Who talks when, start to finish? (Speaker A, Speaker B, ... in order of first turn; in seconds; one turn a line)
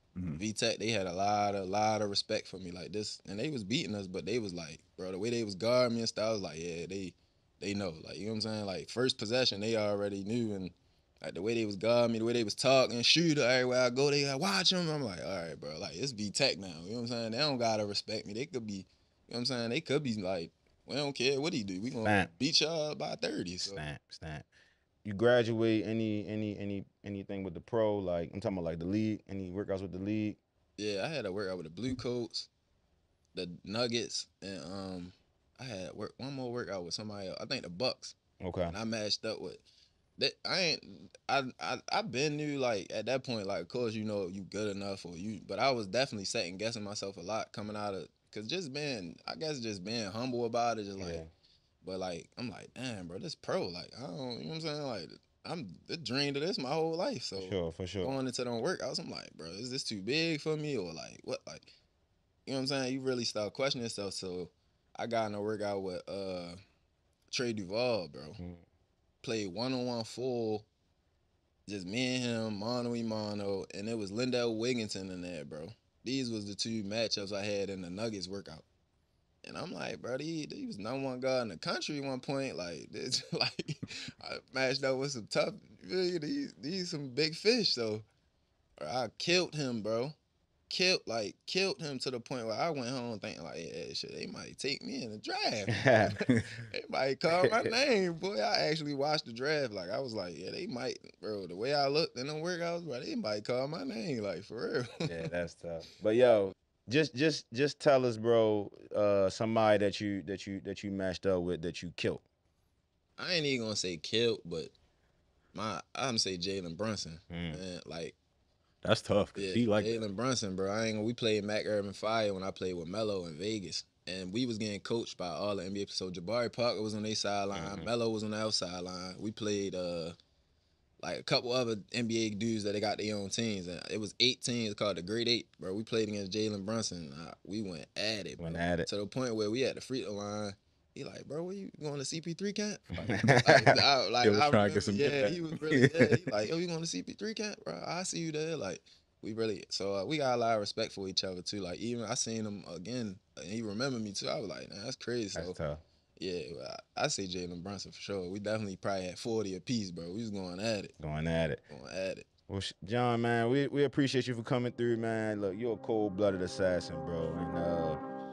Speaker A: 0.1-0.4
Speaker B: 0.3-23.8
Speaker C: 22.0-22.3
Speaker C: 23.6-24.5
Speaker C: 25.0-30.4
Speaker B: 30.8-32.5
Speaker B: 33.3-38.1
Speaker C: 38.4-38.7
Speaker B: 38.7-39.6
Speaker B: 40.2-51.2
Speaker C: 51.0-51.3
Speaker B: 51.8-61.7
Speaker C: 57.4-58.2
Speaker B: 62.5-66.6
Speaker B: 67.3-68.4
Speaker B: 69.2-70.7
Speaker B: 71.7-78.7
Speaker B: 79.4-88.0
Speaker B: 88.8-90.2
Speaker B: 90.7-105.2
Speaker C: 95.7-96.1
Speaker C: 97.4-97.7
Speaker C: 105.0-112.2
Speaker B: 113.2-114.7
Speaker B: 115.5-118.2
Speaker C: 117.3-117.6
Speaker A: 118.8-120.0
Speaker B: 119.3-130.2
Speaker C: 127.5-127.9
Speaker B: 131.0-155.6
Speaker C: 138.4-138.9
Speaker C: 143.1-143.8
Speaker A: 144.2-145.9
Speaker C: 155.3-155.8
Speaker B: 156.2-160.9
Speaker C: 161.0-161.6
Speaker B: 161.7-162.3
Speaker C: 162.5-168.0